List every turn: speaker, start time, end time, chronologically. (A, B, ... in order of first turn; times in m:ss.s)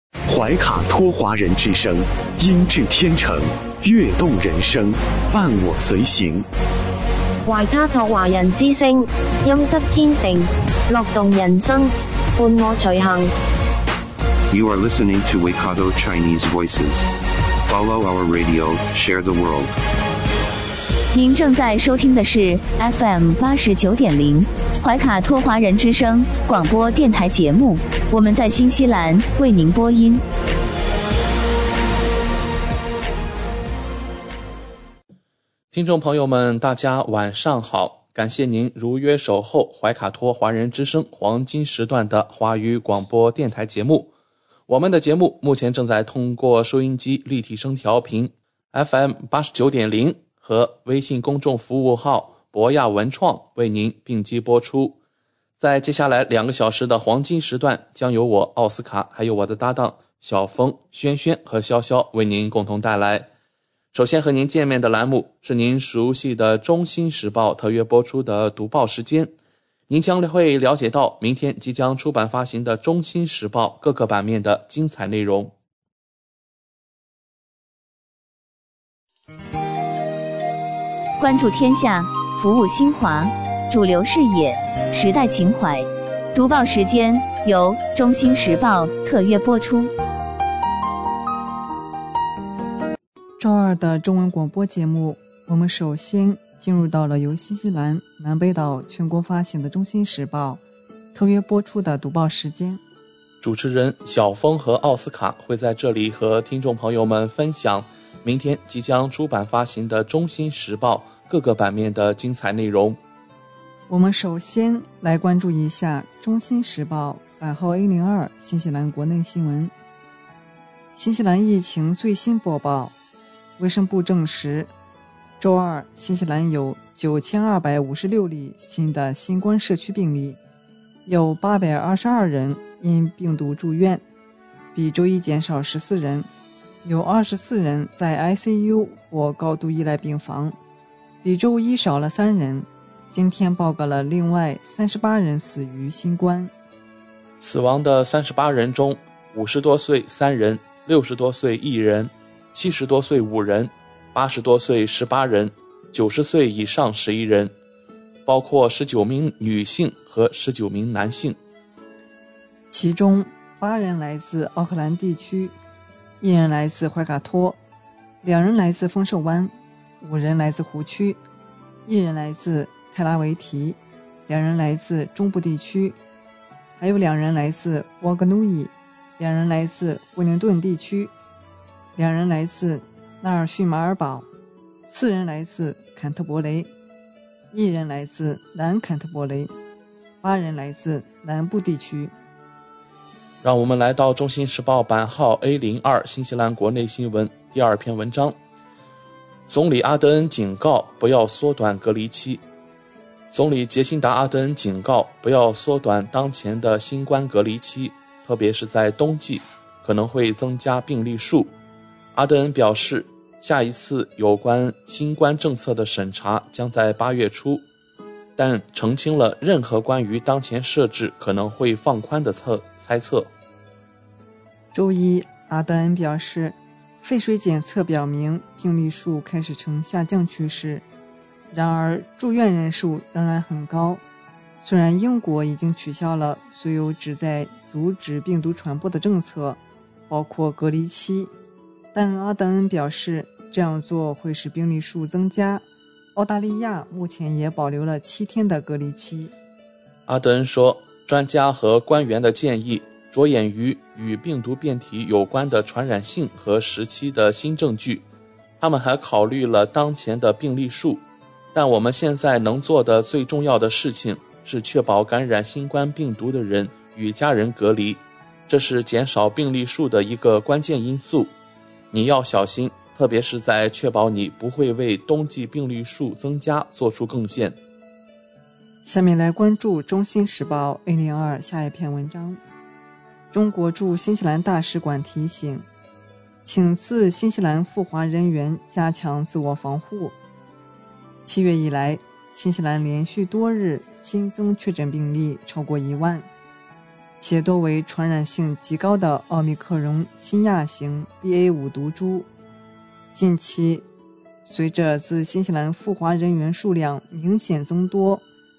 0:00.3-0:06.5 A
0:07.4-0:13.3 B
0:14.5-0:19.7 C
0:21.1-0:30.2 D
0:35.7-0:44.1 E
0:44.7-0:55.0 E
0:55.6-1:03.3 E
1:03.9-1:09.3 E
1:09.9-1:15.5 E
1:21.2-1:29.9 D
1:33.4-1:40.6 F
1:41.1-1:42.8 F
1:43.4-1:53.0 E
1:53.9-1:59.7 F
2:00.9-2:02.9 F
2:03.6-2:04.7 F
2:05.4-2:10.4 F
2:11.0-2:14.0 F
2:14.7-2:16.3 F
2:16.8-2:20.5 F
2:21.2-2:26.5 F
2:27.4-2:37.5 E
2:38.2-2:41.4 E
2:42.7-2:45.5 F
2:46.2-2:47.6 F
2:48.2-2:51.2 F
2:51.8-2:56.0 F
2:56.8-3:01.1 F
3:02.0-3:04.2 F
3:04.9-3:06.7 F
3:07.5-3:09.5 F
3:10.2-3:12.1 F
3:13.4-3:18.4 E
3:19.5-3:22.4 E
3:23.3-3:31.5 E
3:32.1-3:37.6 E
3:38.4-3:43.3 E
3:44.7-3:50.8 F
3:51.5-3:54.0 F
3:54.6-4:01.3 F
4:01.9-4:05.6 F
4:06.2-4:09.3 F
4:10.1-4:18.0 E
4:18.6-4:31.3 E
4:31.9-4:37.6 E
4:38.8-4:42.4 F
4:43.3-4:45.7 F
4:46.4-4:50.1 F
4:51.2-4:56.3 F
4:57.2-5:02.2 F
5:03.1-5:03.8 F
5:04.4-5:08.2 F